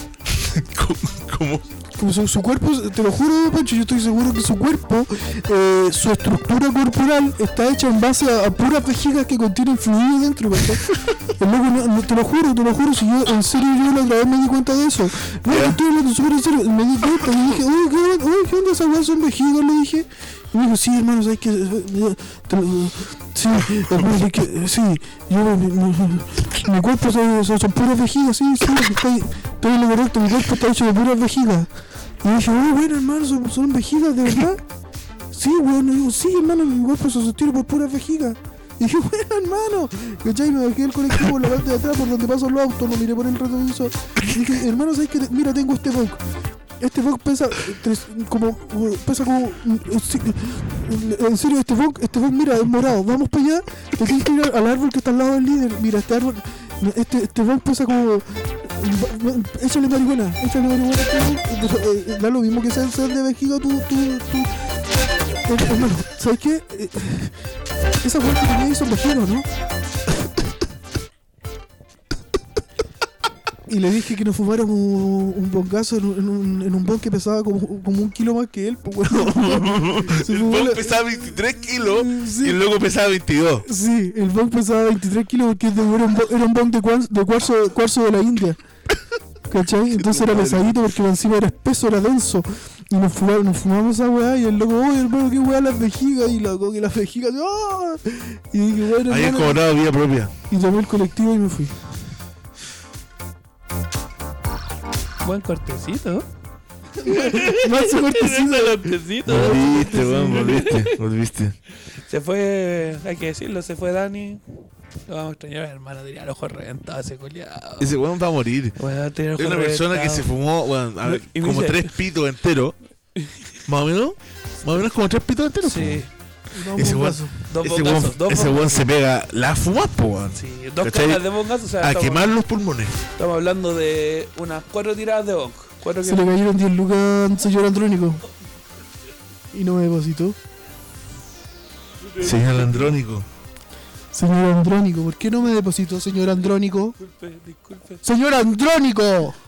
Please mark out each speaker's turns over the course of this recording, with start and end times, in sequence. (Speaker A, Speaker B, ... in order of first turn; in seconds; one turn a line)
Speaker A: 0.3-1.6
Speaker B: 2.0-10.8
Speaker B: 11.4-31.7
Speaker A: 15.5-15.8
Speaker B: 32.2-34.6
Speaker B: 35.3-46.2
Speaker A: 44.2-44.5
Speaker B: 46.8-64.7
Speaker B: 65.4-67.4
Speaker B: 68.0-69.5
Speaker B: 73.7-82.6
Speaker A: 79.2-83.7
Speaker B: 83.6-88.6
Speaker B: 89.5-99.6
Speaker A: 89.9-90.8
Speaker A: 99.1-100.3
Speaker B: 100.5-101.8
Speaker C: 105.2-106.3
Speaker B: 107.0-110.7
Speaker C: 107.0-110.9
Speaker A: 109.3-111.6
Speaker C: 112.1-114.4
Speaker C: 115.1-117.9
Speaker A: 117.8-118.8
Speaker C: 118.8-120.3
Speaker A: 119.4-122.8
Speaker C: 121.0-121.9
Speaker A: 123.7-126.0
Speaker C: 125.6-126.1
Speaker B: 126.5-127.3
Speaker A: 126.8-131.3
Speaker C: 127.5-128.9
Speaker C: 130.4-132.3
Speaker A: 131.8-133.0
Speaker C: 133.2-136.3
Speaker B: 136.0-138.2
Speaker B: 139.5-140.4
Speaker C: 142.0-143.0
Speaker A: 142.2-143.3
Speaker B: 144.1-146.9
Speaker C: 147.0-148.0
Speaker B: 148.0-149.4